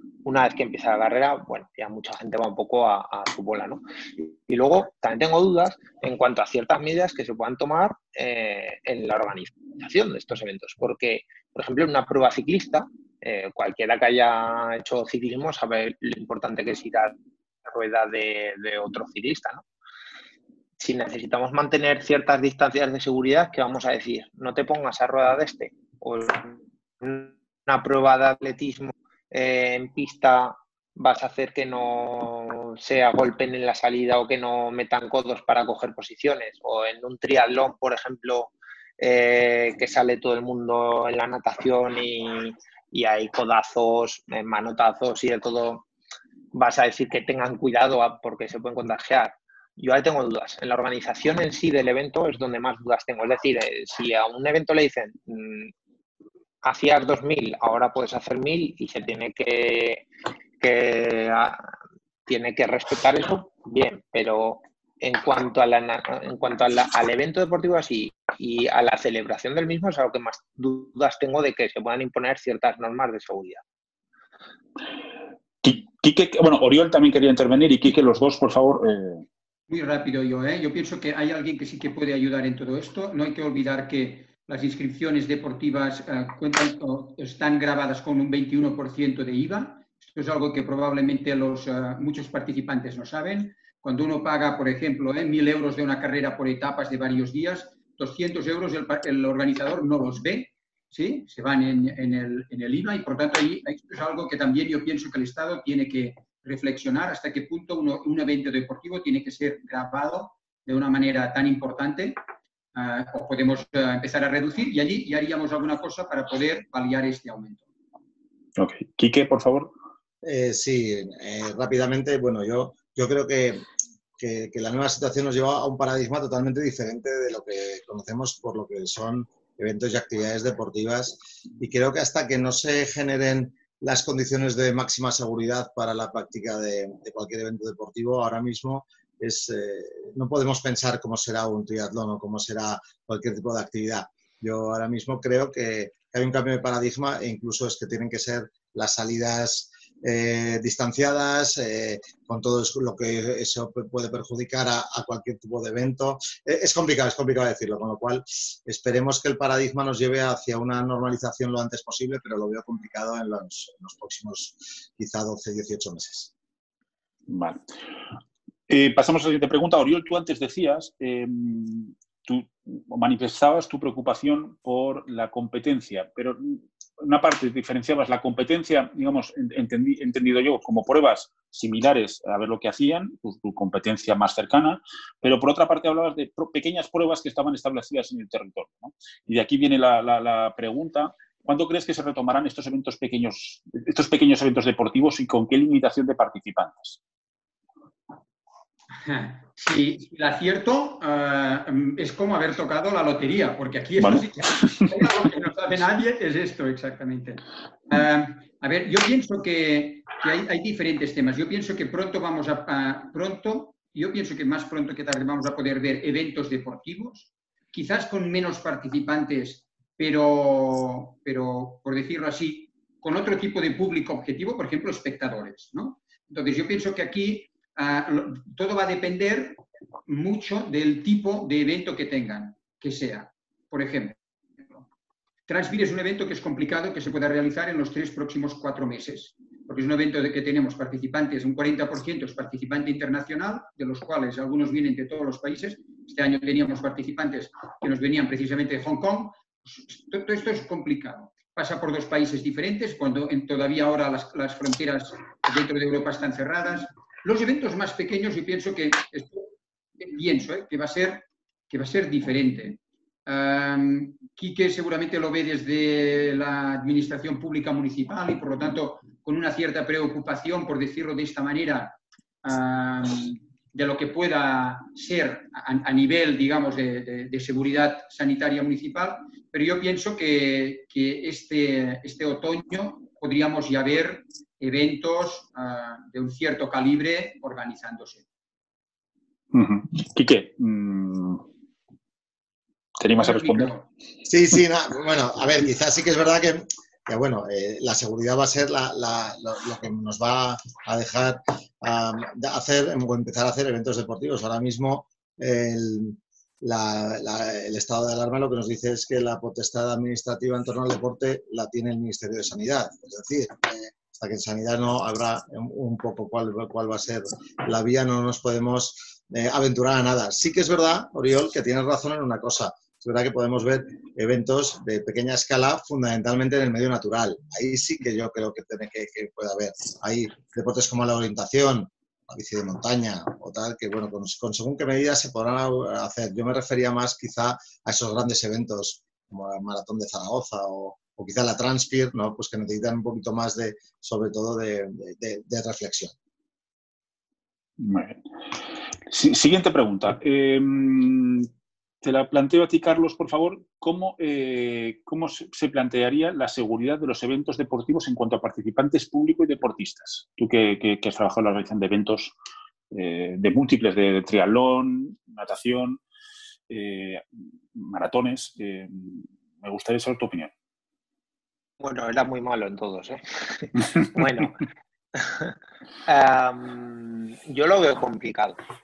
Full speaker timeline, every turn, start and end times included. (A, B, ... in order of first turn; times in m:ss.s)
0:00.2-0:17.2 A
0:17.7-0:19.6 A
0:20.8-0:45.9 A
0:46.5-0:55.7 A
0:56.6-1:00.1 A
1:00.6-1:01.7 A
1:02.3-1:13.6 A
1:15.6-1:19.3 B
1:19.7-1:52.2 C
1:52.8-1:57.6 C
1:58.6-1:59.7 B
2:00.2-2:03.7 D
2:04.2-2:46.3 D
2:47.3-2:47.6 B
2:48.7-3:17.0 B
3:19.0-3:54.2 C
3:24.0-3:24.9 B
3:55.5-4:19.5 C
4:20.0-4:48.2 C
4:49.5-4:51.4 B
4:53.0-4:53.7 B
4:53.2-4:53.9 C
4:54.3-5:46.1 D
5:47.8-5:48.2 B
5:49.1-5:51.5 B
5:52.0-6:02.3 B
6:02.9-6:06.0 B
6:06.7-6:10.5 B
6:11.8-6:14.6 A
6:15.2-6:15.6 A
6:16.1-6:18.6 A